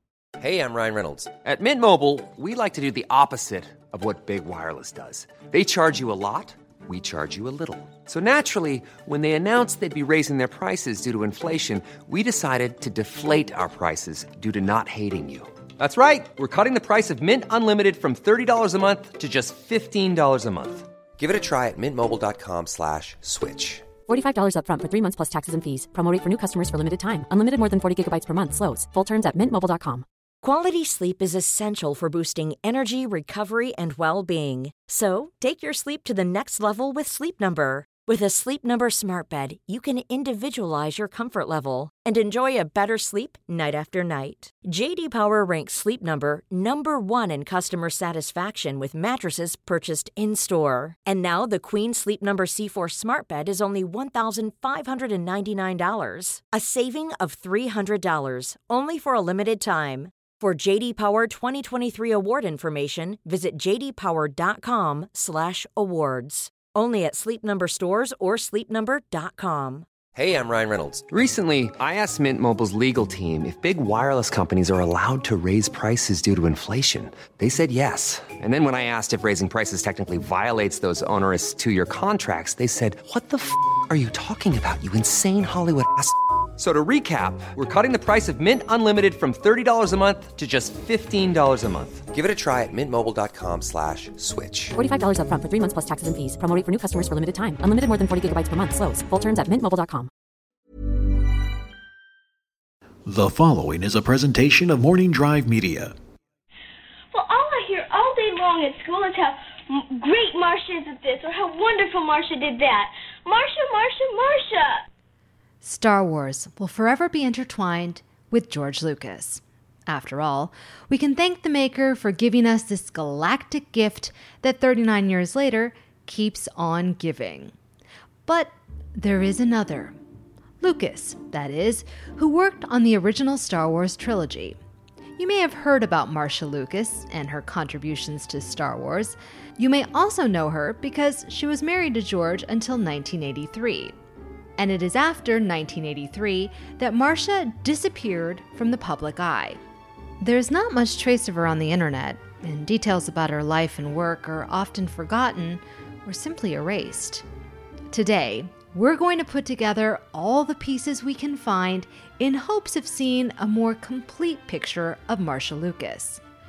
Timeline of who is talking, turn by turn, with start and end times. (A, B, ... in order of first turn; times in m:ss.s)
0:00.4-0:23.8 A
0:24.0-0:30.0 B
0:30.4-1:09.9 C
1:10.1-1:34.7 A
1:34.8-1:40.1 B
1:43.0-1:45.9 D
1:47.1-1:54.8 E
1:55.6-2:07.5 F
2:08.2-2:10.0 F
2:10.6-2:14.6 F
2:15.2-2:23.9 F
2:24.6-2:29.6 F
2:30.2-2:37.2 F
2:37.9-2:46.2 F